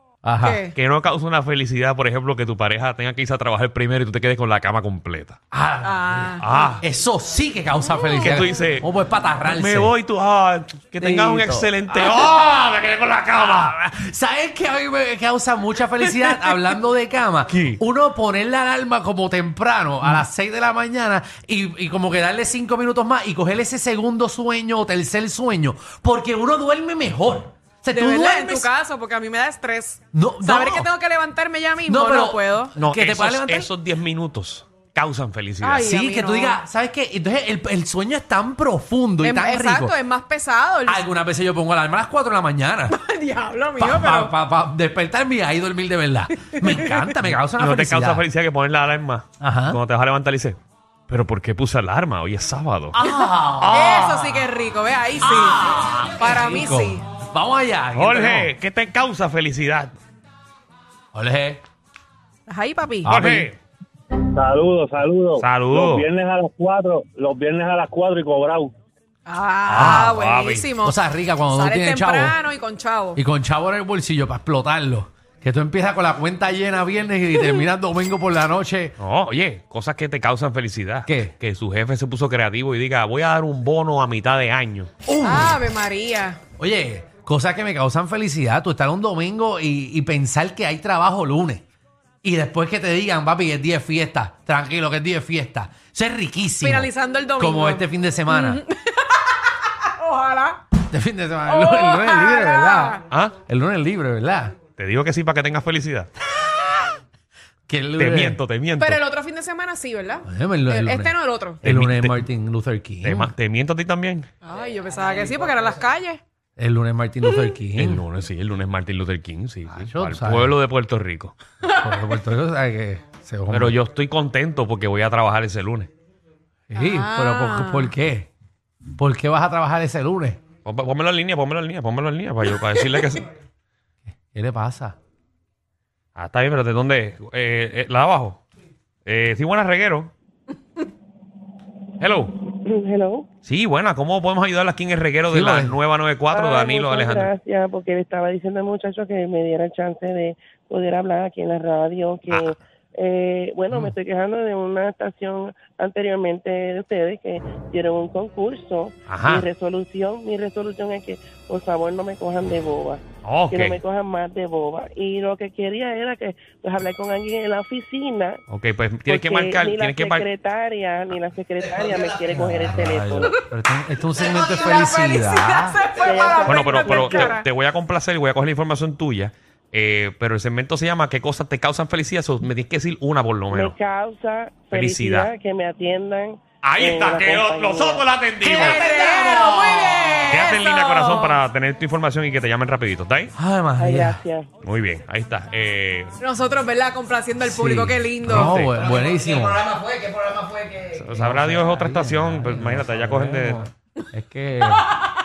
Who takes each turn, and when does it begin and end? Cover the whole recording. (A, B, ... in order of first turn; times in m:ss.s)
0:00.2-0:00.6 A
0:00.4-0:00.7 B
0:00.7-0:05.4 C
0:05.5-0:09.9 A
0:05.8-0:06.8 B
0:06.4-0:06.8 C
0:08.2-0:08.9 C
0:09.5-0:13.8 C
0:11.0-0:12.3 A
0:13.5-0:28.7 A
0:17.5-0:17.8 C
0:27.9-0:32.7 B
0:30.1-0:30.9 A
0:31.9-0:33.7 A
0:32.8-0:35.9 C
0:35.6-0:36.6 B
0:35.8-0:40.0 A
0:39.2-0:41.1 B
0:40.9-0:43.0 A
0:42.9-0:44.3 B
0:43.8-0:48.3 A
0:46.4-0:47.1 B
0:47.5-0:53.0 C
0:49.4-0:49.8 A
0:53.0-0:53.8 A
0:53.0-0:55.6 B
0:53.6-0:54.5 C
0:55.2-0:58.5 A
0:56.2-0:57.0 B
0:57.9-0:59.9 C
1:01.1-1:01.6 A
1:02.5-1:03.2 B
1:03.0-1:03.5 A
1:03.1-1:03.6 C
1:04.3-1:08.7 D
1:05.4-1:06.1 C
1:09.3-1:13.2 B
1:09.7-1:10.7 C
1:09.8-1:10.2 A
1:10.8-1:12.4 A
1:13.2-1:19.0 A
1:19.0-1:24.9 C
1:21.1-1:21.4 A
1:25.1-1:25.6 A
1:25.2-1:26.4 B
1:26.6-1:31.6 A
1:32.2-1:38.6 A
1:36.6-1:39.3 B
1:40.0-1:40.6 B
1:40.9-1:44.6 A
1:41.5-1:43.0 B
1:43.1-1:43.4 C
1:44.8-1:46.1 C
1:47.7-1:48.4 A
1:48.0-1:49.0 C
1:48.8-1:51.6 B
1:50.2-1:53.3 A
1:51.6-1:52.2 C
1:53.0-1:54.3 C
1:54.4-1:56.2 B
1:56.6-1:58.0 A
1:57.8-2:01.3 C
1:59.7-2:00.6 A
2:01.7-2:03.8 A
2:03.5-2:05.9 C
2:06.7-2:08.3 A
2:06.8-2:07.9 B
2:09.0-2:10.4 A
2:10.6-2:13.3 C
2:14.3-2:15.0 A
2:16.1-2:18.4 C
2:19.1-2:20.1 C
2:22.0-2:22.4 C
2:22.6-2:23.3 E
2:23.4-2:27.3 C
2:25.3-2:25.8 A
2:26.3-2:48.4 E
2:32.3-2:32.5 C
2:39.1-2:39.5 C
2:43.2-2:43.8 C
2:48.5-2:50.3 C
2:49.1-2:53.4 E
2:52.3-2:55.8 A
2:54.4-2:57.5 B
2:56.0-2:57.4 E
2:56.5-3:03.8 C
3:03.5-3:08.1 E
3:04.7-3:05.3 C
3:06.6-3:13.3 C
3:08.4-3:11.4 B
3:13.4-3:14.2 A
3:13.8-3:14.5 E
3:14.6-3:16.1 C
3:16.2-3:18.7 B
3:17.4-3:19.8 A
3:18.3-3:18.9 C
3:20.7-3:23.7 C
3:21.1-3:24.8 A